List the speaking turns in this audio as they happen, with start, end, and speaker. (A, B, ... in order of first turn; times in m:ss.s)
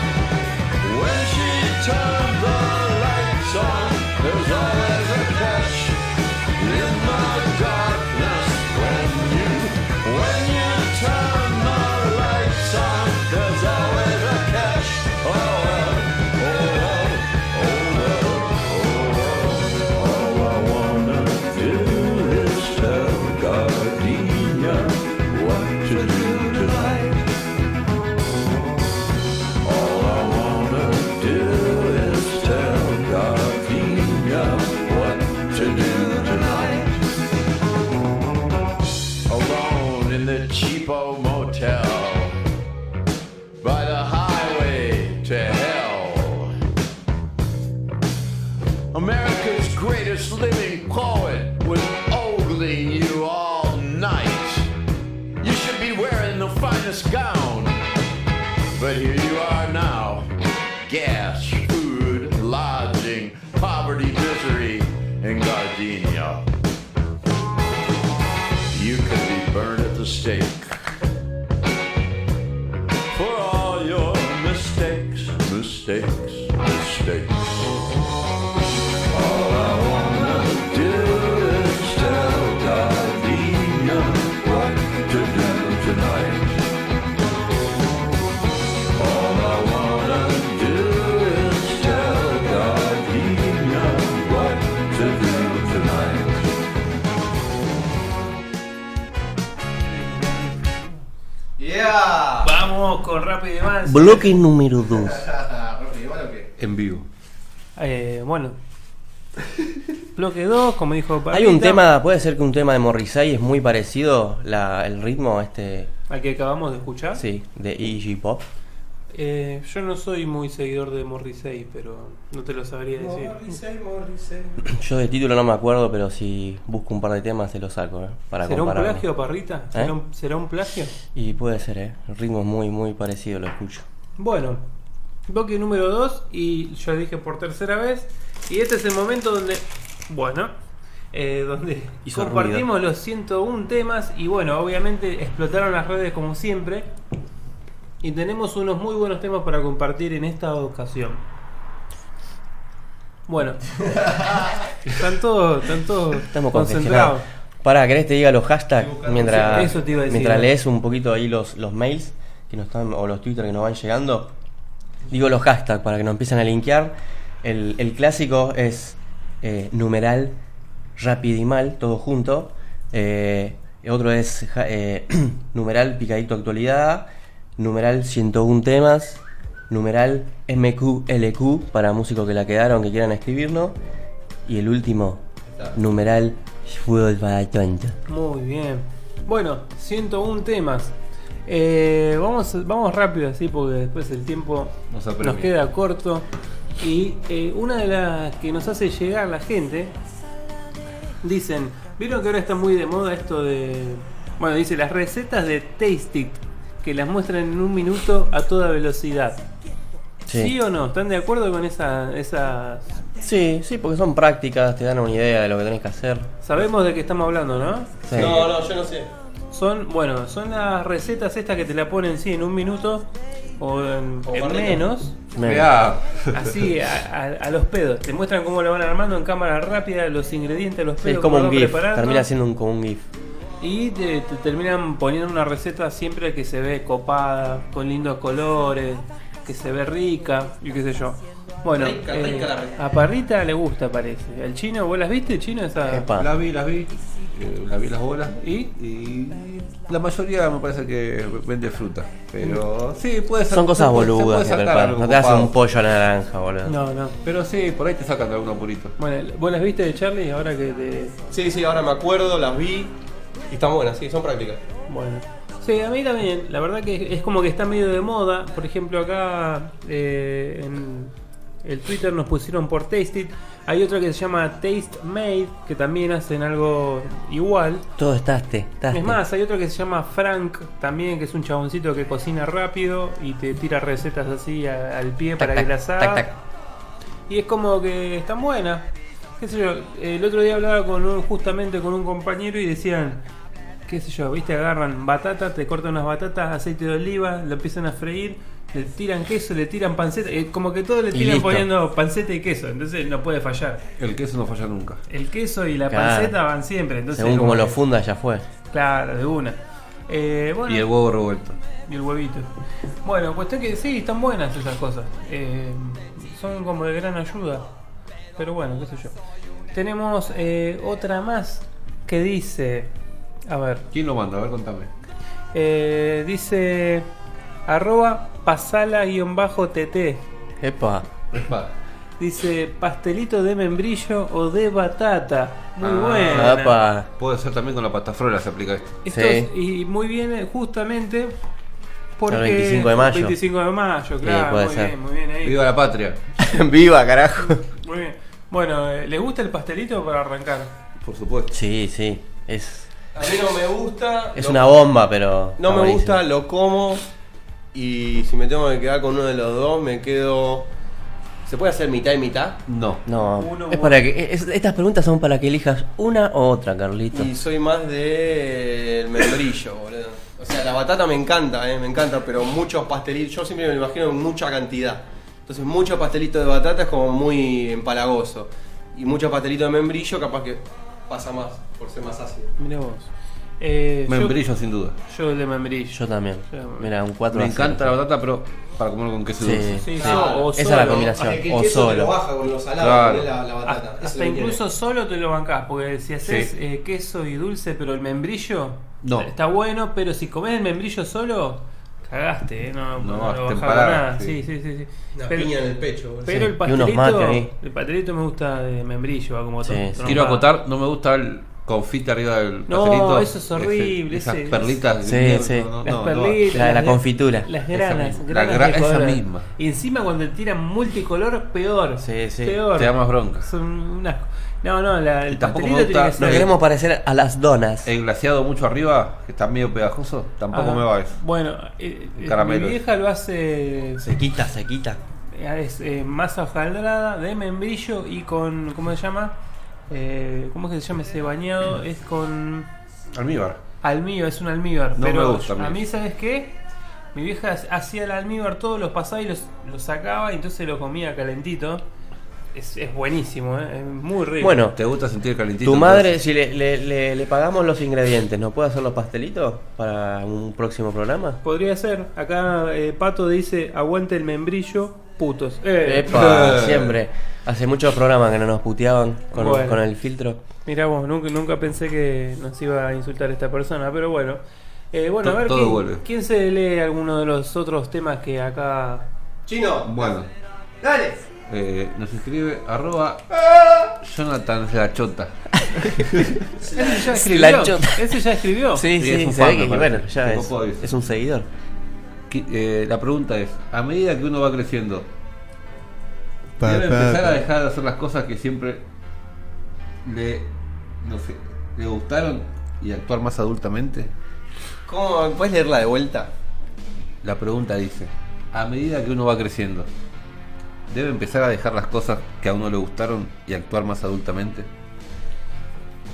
0:00.8-0:06.0 A
0:06.6-0:27.2 A
0:29.6-0:37.0 A
0:39.3-0:42.4 A
0:43.6-0:46.5 A
0:48.9-0:54.7 A
0:55.4-0:57.8 A
0:58.8-1:00.3 A
1:00.8-1:06.5 A
1:08.7-1:10.7 A
1:13.1-1:17.7 A
1:19.1-1:26.6 A
1:28.9-1:36.5 A
1:39.9-1:40.5 B
1:41.6-1:42.5 C
1:42.4-1:44.4 B
1:43.8-1:45.2 D
1:45.0-1:46.5 C
1:46.6-1:47.0 E
1:47.8-1:48.6 B
1:50.1-1:51.8 B
1:51.3-1:55.9 D
1:56.1-1:57.2 B
1:57.1-1:58.4 D
1:59.1-2:03.4 B
2:03.0-2:04.6 C
2:04.6-2:09.0 D
2:08.4-2:10.9 B
2:11.1-2:13.8 D
2:14.2-2:14.6 B
2:15.3-2:20.5 B
2:21.1-2:26.9 B
2:22.0-2:22.7 D
2:28.0-2:31.2 B
2:33.3-2:33.6 B
2:34.0-2:34.5 C
2:34.8-2:37.2 B
2:36.2-2:44.3 D
2:38.8-2:39.8 C
2:39.2-2:40.5 B
2:45.1-2:50.4 D
2:51.0-3:03.8 D
3:04.4-3:05.2 D
3:05.7-3:08.0 D
3:08.1-3:10.9 B
3:11.4-3:16.2 B
3:14.9-3:15.5 E
3:16.8-3:19.9 B
3:21.2-3:29.4 B
3:30.3-3:30.5 D
3:30.3-3:33.0 B
3:33.2-3:36.3 D
3:36.4-3:38.0 B
3:38.0-3:38.5 D
3:38.1-3:39.1 C
3:38.2-3:38.4 E
3:39.5-3:45.2 B
3:44.3-3:44.8 C
3:45.3-3:45.8 D
3:45.4-3:46.5 E
3:46.3-3:52.3 B
3:51.0-3:53.1 D
3:53.6-4:06.1 B
4:01.7-4:02.8 C
4:05.8-4:06.3 D
4:06.2-4:15.5 E
4:08.4-4:08.7 B
4:13.5-4:16.8 D
4:16.6-4:17.2 B
4:17.2-4:18.9 E
4:19.0-4:21.2 B
4:21.3-4:22.9 C
4:23.5-4:24.6 C
4:24.9-4:31.1 B
4:31.6-4:37.8 B
4:38.0-4:39.2 D
4:38.9-4:46.2 B
4:45.4-4:46.3 D
4:47.3-4:48.9 B
4:49.4-4:53.2 B
4:53.9-5:03.8 B
5:01.1-5:01.7 D
5:04.0-5:05.0 E
5:05.1-5:07.8 B
5:05.9-5:06.3 D
5:07.1-5:08.4 D
5:08.7-5:10.9 B
5:10.7-5:11.6 E
5:11.8-5:12.5 B
5:13.0-5:17.6 B
5:18.4-5:19.1 B
5:19.7-5:22.9 B
5:23.5-5:23.8 B
5:23.9-5:24.9 E
5:25.5-5:27.1 B
5:27.6-5:30.2 B
5:30.6-5:31.1 D
5:31.3-5:31.7 E
5:32.2-5:36.8 B
5:35.8-5:36.5 E
5:36.3-5:37.1 D
5:37.2-5:39.0 E
5:39.0-5:41.3 B
5:39.1-5:39.5 D
5:42.2-5:45.6 B
5:42.3-5:43.4 D
5:44.2-5:44.9 D
5:45.4-5:46.2 E
5:46.4-5:47.6 D
5:47.4-5:50.7 B
5:51.0-5:51.5 E
5:51.5-5:52.9 D
5:53.1-5:54.8 C
5:54.3-5:56.2 D
5:55.6-5:57.0 C
5:57.7-6:00.7 C
6:01.4-6:02.6 C
6:02.7-6:03.0 E
6:03.0-6:07.3 D
6:03.4-6:04.0 B
6:07.1-6:22.5 C
6:22.6-6:24.4 B
6:24.1-6:25.0 E
6:25.1-6:26.9 B
6:25.9-6:27.9 D
6:27.3-6:29.8 E
6:29.4-6:32.1 D
6:29.8-6:31.3 B
6:30.0-6:34.6 C
6:32.8-6:33.3 E
6:33.6-6:45.5 B
6:36.2-6:36.5 E
6:39.0-6:39.3 E
6:43.0-6:44.4 E
6:45.2-6:46.5 C
6:46.2-6:50.4 B
6:46.3-6:47.5 D
6:49.6-6:50.2 D
6:50.0-6:56.4 E
6:52.7-6:54.8 B
6:55.0-6:55.7 D
6:55.8-7:06.5 B
6:56.5-6:57.5 D
6:57.7-6:59.5 E
7:02.0-7:02.6 D
7:02.7-7:03.5 E
7:05.3-7:06.5 E
7:06.2-7:07.9 D
7:07.8-7:11.2 E
7:10.5-7:14.0 B
7:12.2-7:12.8 E
7:14.0-7:15.0 D
7:15.3-7:19.3 B
7:19.9-7:22.7 B
7:23.1-7:23.6 E
7:23.8-7:26.6 B
7:25.0-7:25.8 E
7:27.1-7:31.8 B
7:32.5-7:34.6 B
7:34.4-7:34.8 D
7:34.7-7:36.2 E
7:35.6-7:41.4 D
7:41.4-7:46.2 B
7:45.8-7:50.4 D
7:46.1-7:47.0 E
7:49.3-7:49.8 B
7:50.6-7:54.4 B
7:54.9-7:59.1 B
7:55.2-7:56.0 E
7:59.5-8:00.2 C
7:59.8-8:00.3 E
8:00.8-8:01.2 C
8:01.5-8:03.3 E
8:03.5-8:03.9 C
8:04.0-8:06.3 E
8:06.6-8:07.0 C
8:06.7-8:08.9 B
8:06.8-8:08.1 D
8:08.7-8:11.5 D
8:09.0-8:10.9 E
8:12.3-8:15.1 E
8:16.6-8:18.8 E
8:20.0-8:20.5 E
8:21.0-8:24.1 E
8:24.8-8:26.3 C
8:27.2-8:29.9 E
8:30.9-8:34.7 E